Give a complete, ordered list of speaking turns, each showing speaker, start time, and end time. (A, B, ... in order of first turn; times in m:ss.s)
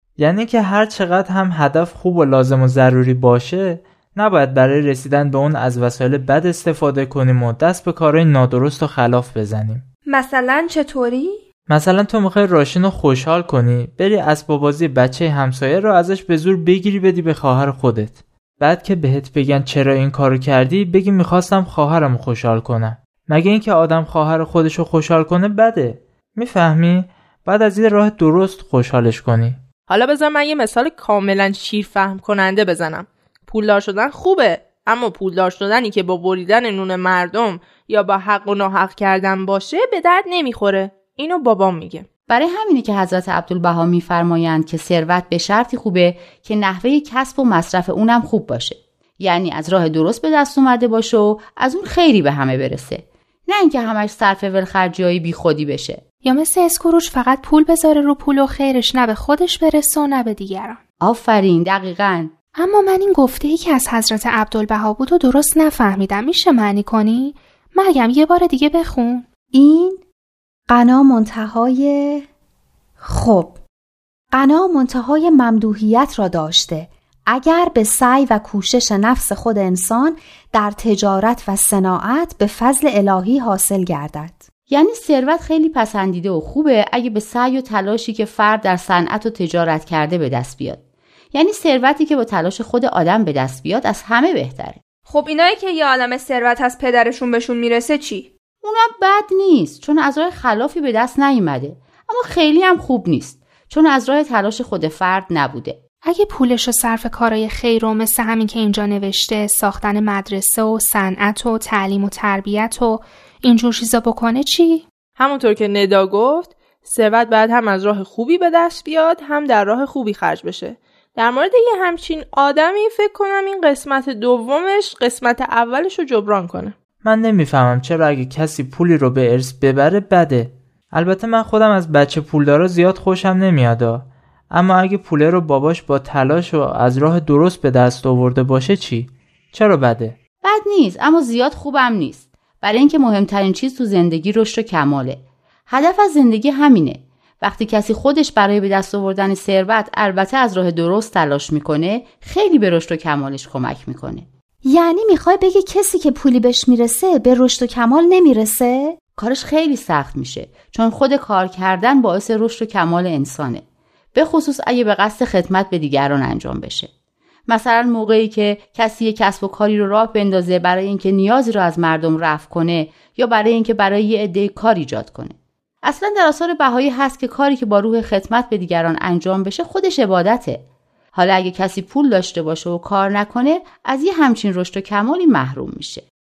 0:00.2-0:09.8 A
0:10.1-0:11.4 B
0:11.7-0:29.6 A
0:29.9-0:42.1 C
0:42.3-0:56.0 D
0:56.2-1:00.8 E
1:01.0-1:02.3 D
1:02.6-1:09.3 E
1:09.5-1:10.0 F
1:10.7-1:12.3 F
1:13.0-1:13.6 F
1:14.3-1:24.4 F
1:24.7-1:30.8 D
1:31.3-1:34.8 D
1:35.1-1:38.3 B
1:38.6-1:45.8 D
1:46.0-1:54.9 E
1:55.2-2:06.8 C
2:07.0-2:20.2 A
2:20.4-2:34.3 D
2:34.6-2:39.0 F
2:39.2-2:43.6 D
2:44.2-2:46.9 D
2:47.5-3:06.0 D